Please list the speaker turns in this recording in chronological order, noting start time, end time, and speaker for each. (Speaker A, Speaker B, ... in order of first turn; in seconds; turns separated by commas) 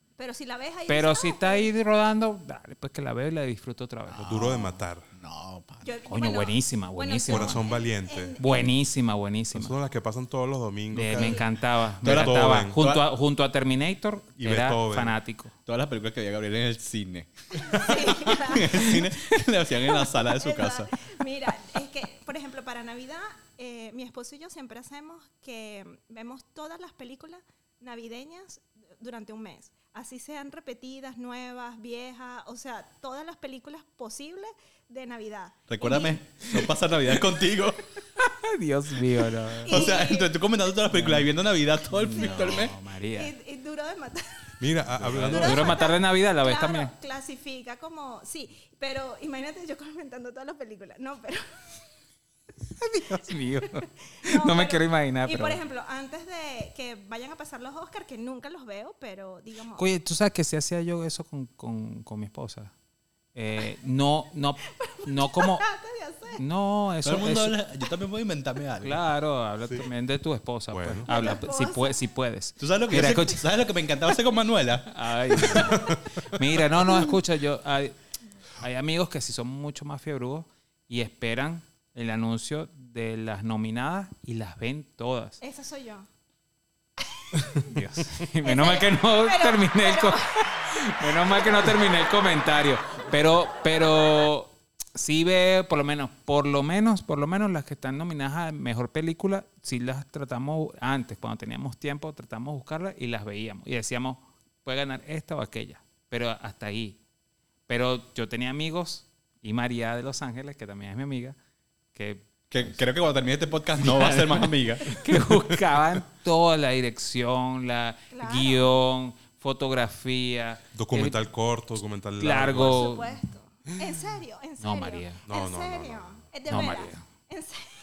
Speaker A: 0.2-1.7, Speaker B: 0.9-4.3, Speaker C: 4.1-5.9, Speaker D: 4.2-5.1, Speaker A: 5.8-8.7, Speaker B: 6.1-7.6, Speaker D: 7.3-8.4, Speaker B: 8.4-9.7, Speaker D: 9.5-11.5, Speaker B: 10.9-15.5, Speaker A: 11.2-11.4, Speaker D: 12.0-12.8, Speaker C: 12.0-13.1, Speaker D: 14.4-15.2, Speaker C: 15.7-21.1, Speaker A: 17.6-19.0, Speaker A: 20.2-36.2, Speaker C: 35.7-37.9, Speaker B: 38.1-40.0, Speaker A: 39.6-40.4, Speaker C: 39.6-42.7, Speaker B: 40.9-41.3, Speaker B: 41.9-43.3, Speaker A: 42.1-44.4, Speaker D: 44.6-45.8, Speaker C: 45.0-45.7, Speaker A: 45.2-51.4, Speaker B: 45.3-46.9, Speaker B: 52.8-55.6, Speaker A: 53.6-59.8, Speaker B: 59.8-62.7, Speaker B: 63.3-65.6, Speaker A: 64.7-66.4, Speaker B: 66.3-67.5, Speaker C: 67.0-69.0, Speaker B: 68.8-73.5, Speaker D: 70.7-71.1, Speaker A: 71.0-72.0, Speaker C: 72.6-75.7, Speaker B: 74.9-78.0, Speaker D: 75.7-76.0, Speaker B: 78.6-85.4, Speaker A: 85.4-86.1, Speaker A: 87.0-87.7, Speaker B: 87.6-107.0, Speaker A: 88.4-91.7, Speaker B: 107.7-111.3, Speaker B: 111.9-112.3, Speaker C: 112.5-115.0, Speaker B: 113.8-121.2, Speaker D: 115.2-115.8, Speaker A: 118.1-118.7, Speaker D: 120.7-122.9, Speaker B: 122.2-123.2, Speaker A: 122.5-127.7, Speaker B: 124.6-125.2, Speaker D: 125.2-126.2, Speaker B: 126.5-127.0